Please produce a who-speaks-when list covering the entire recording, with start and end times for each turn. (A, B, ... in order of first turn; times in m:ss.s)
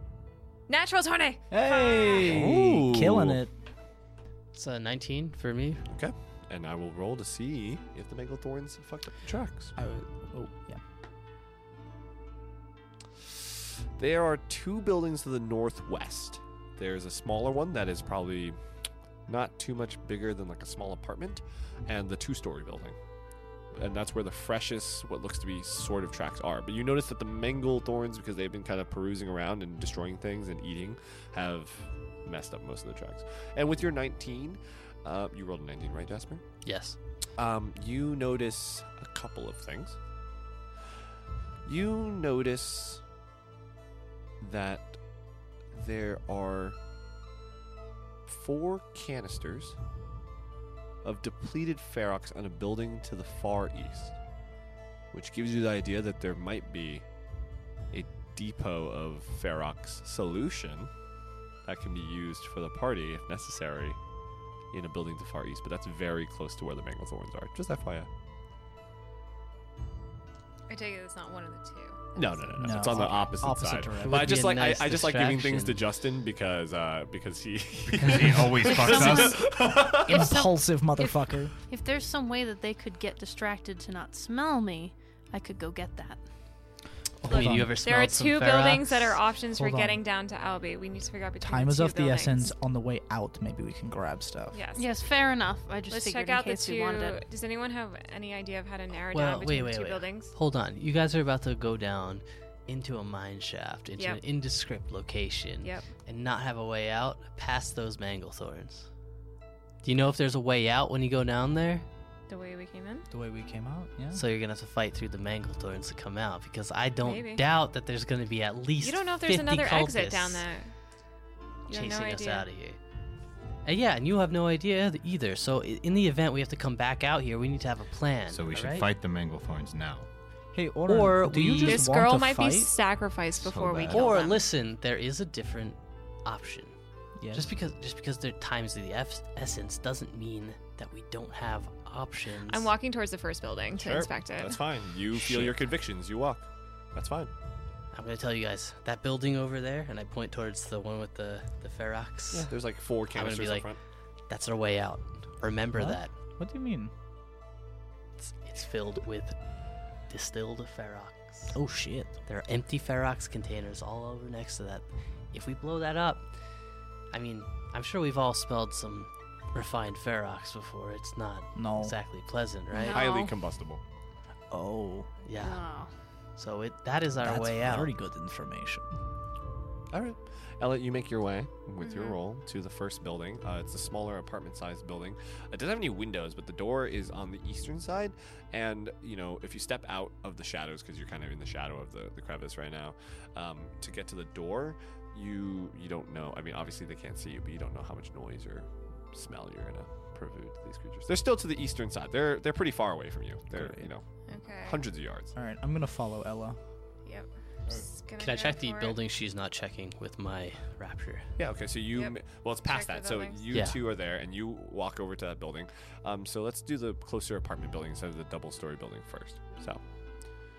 0:00.7-0:02.4 A
0:01.5-0:03.5 B
0:02.1-0:03.4 C
0:04.5-0:05.8 D
0:05.9-0:09.7 C
0:09.8-0:10.8 B
0:14.0-0:18.6 C
0:19.3-0:23.0 C
0:23.7-0:36.6 C
0:36.6-0:37.0 D
0:37.3-0:40.0 C
0:41.6-0:43.0 C
0:44.4-0:45.0 C
0:45.7-0:46.8 C
0:48.3-0:49.8 C
0:51.0-0:54.1 C
0:55.1-0:57.0 C
0:57.9-1:00.9 C
1:01.6-1:04.0 C
1:04.7-1:08.1 C
1:10.7-1:13.0 A
1:12.1-1:20.2 C
1:12.6-1:14.4 B
1:14.0-1:15.8 D
1:17.9-1:19.5 E
1:18.6-1:21.5 B
1:18.7-1:21.1 F
1:21.7-1:26.2 F
1:27.2-1:27.7 B
1:27.2-1:29.2 D
1:27.5-1:32.5 A
1:29.5-1:30.0 B
1:31.4-1:34.6 B
1:34.5-1:34.9 A
1:34.7-1:37.2 F
1:35.9-1:40.3 A
1:39.1-1:48.9 D
1:44.0-1:44.2 A
1:45.6-1:45.9 A
1:49.8-1:51.8 D
1:52.3-1:53.1 A
1:53.1-1:54.2 B
1:54.1-2:00.4 D
1:57.0-1:57.4 A
1:58.8-2:00.7 A
2:01.7-2:02.4 A
2:01.7-2:02.8 D
2:03.6-2:08.9 D
2:08.3-2:10.1 E
2:10.5-2:12.7 B
2:10.8-2:12.0 D
2:11.6-2:14.4 A
2:13.4-2:14.1 E
2:13.9-2:16.7 D
2:17.2-2:17.5 B
2:17.3-2:22.7 D
2:22.5-2:24.6 A
2:23.8-2:27.3 C
2:27.9-2:32.5 D
2:32.3-2:33.8 C
2:33.1-2:33.7 D
2:34.3-2:36.2 D
2:35.7-2:36.9 B
2:38.2-2:41.5 D
2:41.5-2:42.1 B
2:42.3-2:46.3 D
2:47.1-2:53.0 D
2:51.5-2:51.9 B
2:52.7-2:53.3 F
2:52.9-2:53.8 C
2:54.5-2:55.1 B
2:55.2-2:55.6 D
2:55.4-2:55.9 F
2:56.3-2:57.9 D
2:57.2-2:58.9 B
2:59.9-3:25.3 C
3:01.8-3:02.2 A
3:23.5-3:23.9 B
3:24.3-3:24.8 A
3:25.3-3:26.6 B
3:27.0-3:29.0 A
3:28.2-3:31.3 D
3:31.4-3:39.8 C
3:31.9-3:33.4 A
3:33.5-3:33.8 D